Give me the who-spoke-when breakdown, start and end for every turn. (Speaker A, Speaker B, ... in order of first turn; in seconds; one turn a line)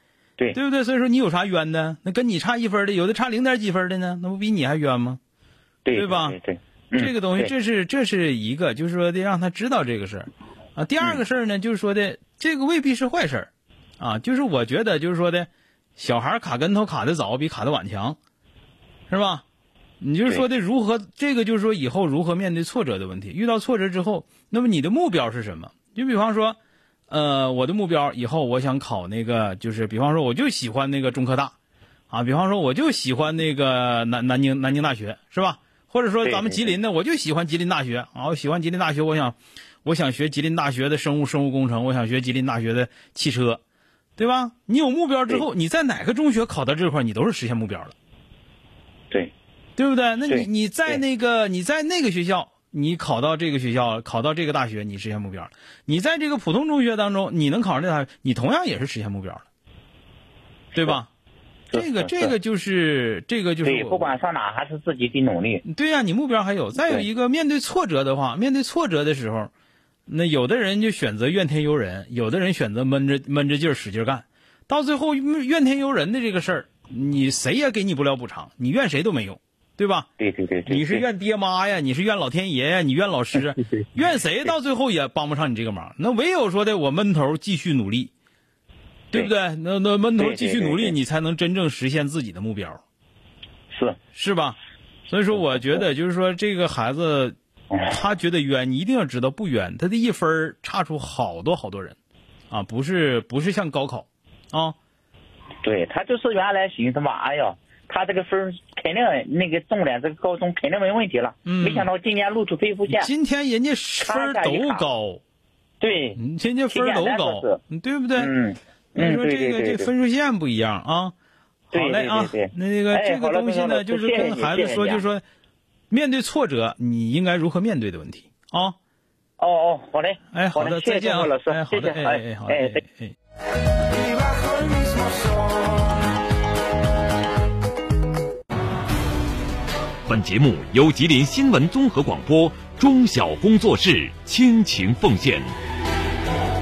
Speaker A: 0.5-5.2
Speaker B: 5.8-7.5
Speaker A: 5.9-6.4
Speaker A: 7.0-13.5
Speaker A: 14.0-18.2
Speaker A: 19.1-19.4
Speaker A: 20.0-26.6
Speaker A: 27.1-31.5
Speaker A: 32.1-43.6
Speaker B: 36.2-36.8
Speaker A: 44.2-47.9
Speaker A: 49.8-59.4
Speaker B: 50.3-51.0
Speaker B: 60.7-61.0
Speaker A: 60.7-61.1
Speaker B: 61.7-62.3
Speaker A: 61.7-64.1
Speaker B: 63.6-65.6
Speaker A: 65.6-69.5
Speaker B: 66.8-67.0
Speaker A: 70.1-80.1
Speaker B: 80.2-81.0
Speaker A: 80.7-88.1
Speaker A: 89.1-92.8
Speaker B: 90.2-91.0
Speaker B: 93.7-94.0
Speaker A: 94.1-94.5
Speaker A: 95.1-97.3
Speaker B: 95.3-95.6
Speaker B: 97.7-98.0
Speaker A: 97.9-102.0
Speaker A: 102.5-104.8
Speaker B: 105.6-113.1
Speaker A: 111.4-111.9
Speaker A: 112.9-115.2
Speaker B: 114.0-114.8
Speaker B: 115.8-117.6
Speaker A: 116.2-118.3
Speaker B: 118.2-119.9
Speaker A: 119.0-121.1
Speaker A: 121.7-125.2
Speaker B: 121.7-125.0
Speaker A: 125.9-128.8
Speaker B: 129.4-132.8
Speaker A: 130.3-133.1
Speaker C: 140.1-145.5